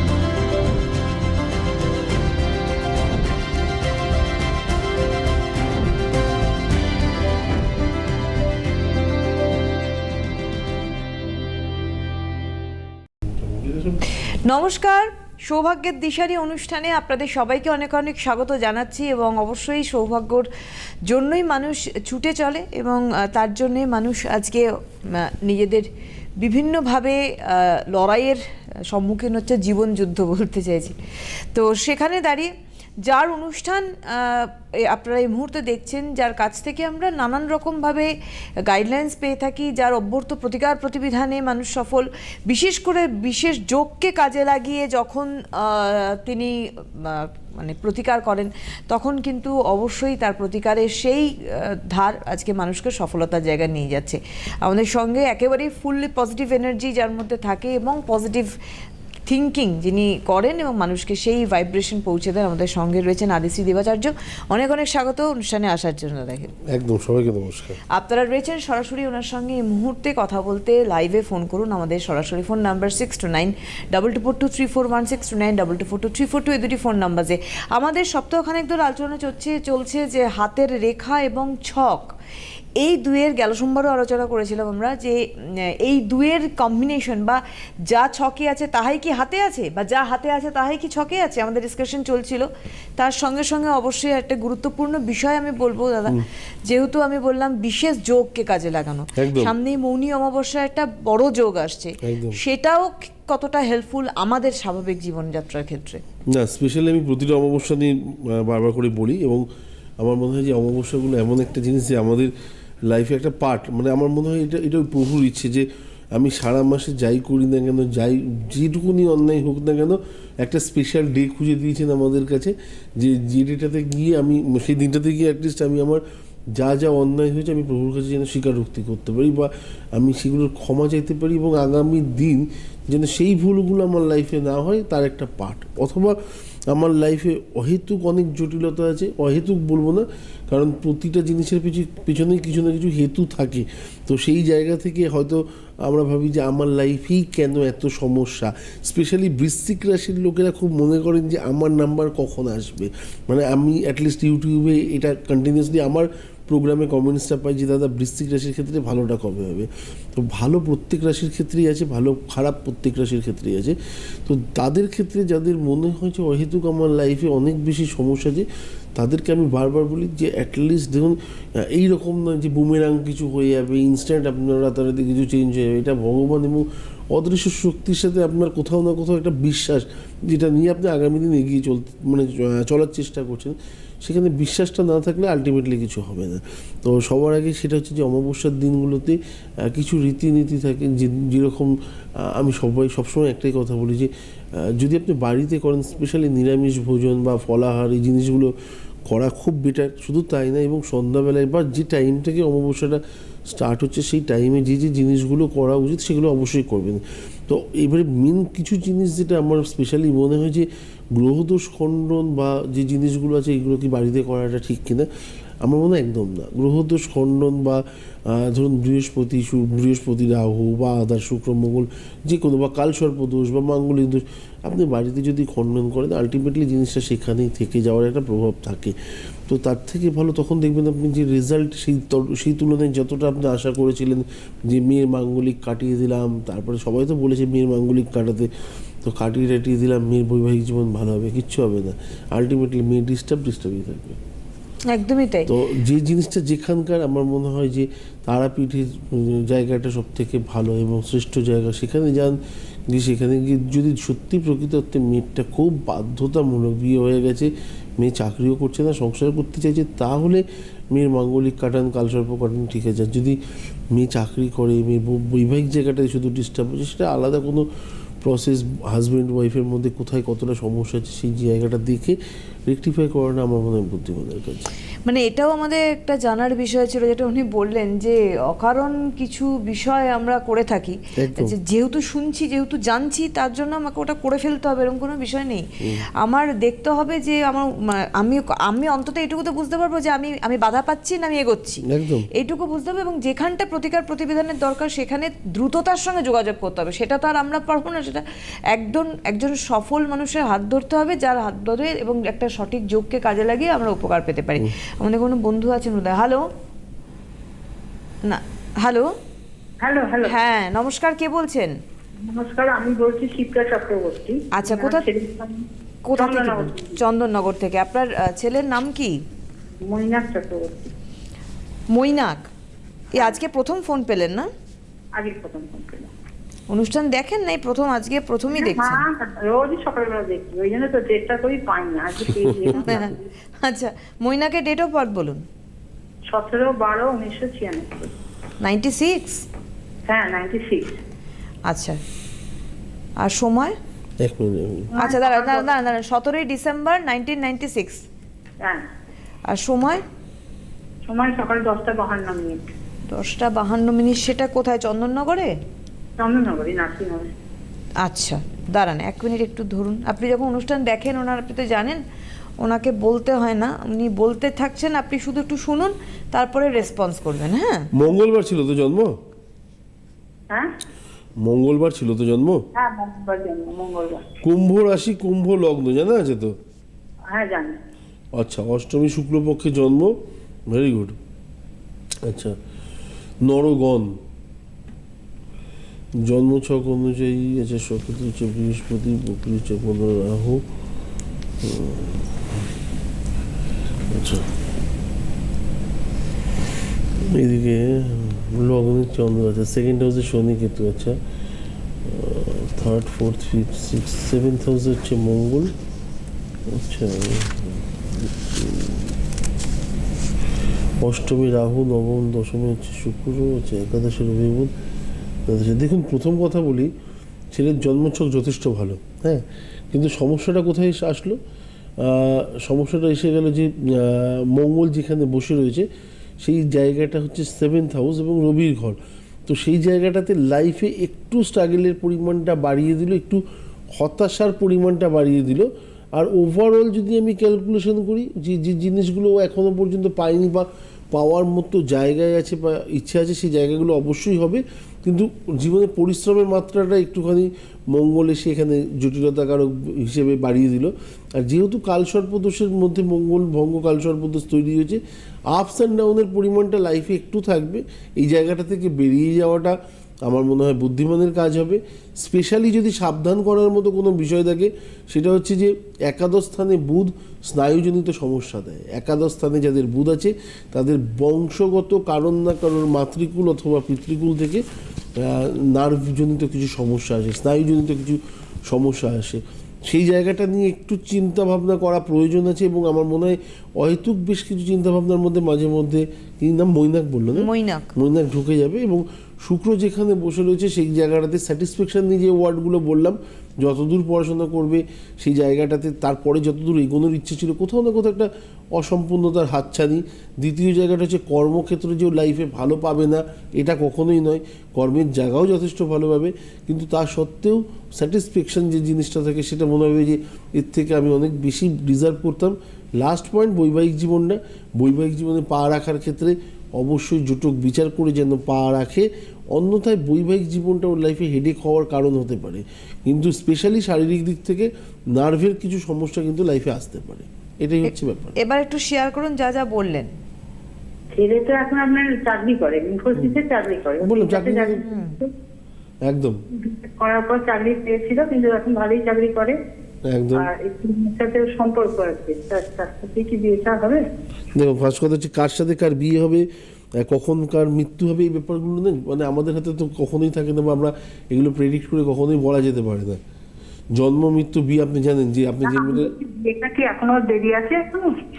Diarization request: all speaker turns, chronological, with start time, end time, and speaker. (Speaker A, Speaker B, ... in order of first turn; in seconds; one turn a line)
Speaker A: 13.3-14.0
Speaker B: 14.1-20.5
Speaker B: 21.1-25.9
Speaker B: 26.4-31.0
Speaker B: 31.5-32.5
Speaker B: 33.0-38.1
Speaker B: 38.7-58.5
Speaker B: 59.3-66.5
Speaker A: 66.7-67.8
Speaker B: 67.9-82.1
Speaker B: 82.8-85.2
Speaker B: 85.8-106.0
Speaker A: 99.2-99.5
Speaker A: 102.0-102.4
Speaker A: 106.3-109.5
Speaker A: 110.0-112.3
Speaker A: 112.8-126.0
Speaker A: 126.5-136.2
Speaker A: 136.7-198.5
Speaker A: 199.1-215.1
Speaker A: 215.6-228.9
Speaker A: 229.5-238.5
Speaker A: 239.0-244.2
Speaker B: 244.9-245.5
Speaker A: 245.5-263.4
Speaker A: 263.9-267.7
Speaker A: 268.2-274.7
Speaker B: 275.1-291.8
Speaker A: 281.2-281.5
Speaker A: 291.9-292.3
Speaker B: 292.3-306.5
Speaker B: 308.2-309.1
Speaker C: 309.8-310.3
Speaker B: 310.2-311.8
Speaker C: 312.2-317.0
Speaker B: 314.5-315.1
Speaker B: 316.1-319.2
Speaker C: 319.8-320.9
Speaker B: 321.9-322.5
Speaker B: 323.1-324.5
Speaker C: 325.1-326.1
Speaker B: 326.7-329.0
Speaker C: 328.6-333.2
Speaker A: 332.5-332.8
Speaker B: 332.8-335.4
Speaker C: 336.3-338.1
Speaker B: 338.6-339.4
Speaker C: 340.1-341.0
Speaker B: 341.7-342.0
Speaker B: 343.2-343.8
Speaker A: 344.2-344.9
Speaker C: 344.9-345.7
Speaker B: 345.0-348.0
Speaker C: 348.6-348.9
Speaker B: 349.5-350.0
Speaker C: 351.1-352.7
Speaker B: 353.1-355.5
Speaker C: 356.2-357.3
Speaker B: 358.0-362.0
Speaker B: 362.6-367.9
Speaker A: 367.9-369.2
Speaker A: 371.4-372.6
Speaker C: 372.7-374.2
Speaker A: 374.4-376.6
Speaker C: 377.3-377.8
Speaker A: 378.4-380.1
Speaker A: 380.7-381.2
Speaker A: 382.2-382.6
Speaker A: 383.4-384.2
Speaker A: 386.2-390.7
Speaker A: 391.6-392.7
Speaker A: 394.1-394.5
Speaker A: 397.2-401.2
Speaker A: 402.0-405.7
Speaker A: 406.7-409.1
Speaker A: 411.0-414.7
Speaker A: 415.4-416.9
Speaker A: 417.5-421.4
Speaker A: 422.0-425.9
Speaker A: 426.4-433.4
Speaker A: 433.9-455.0
Speaker A: 455.5-474.6
Speaker A: 475.1-528.4
Speaker B: 487.3-487.9
Speaker B: 528.4-530.1
Speaker C: 531.1-535.3
Speaker A: 534.0-534.8
Speaker B: 534.8-535.2
Speaker A: 536.0-536.4
Speaker C: 536.5-539.6
Speaker A: 540.0-540.5
Speaker C: 540.3-544.0
Speaker A: 544.5-546.5
Speaker A: 547.0-553.2
Speaker A: 553.9-556.1
Speaker C: 555.7-558.2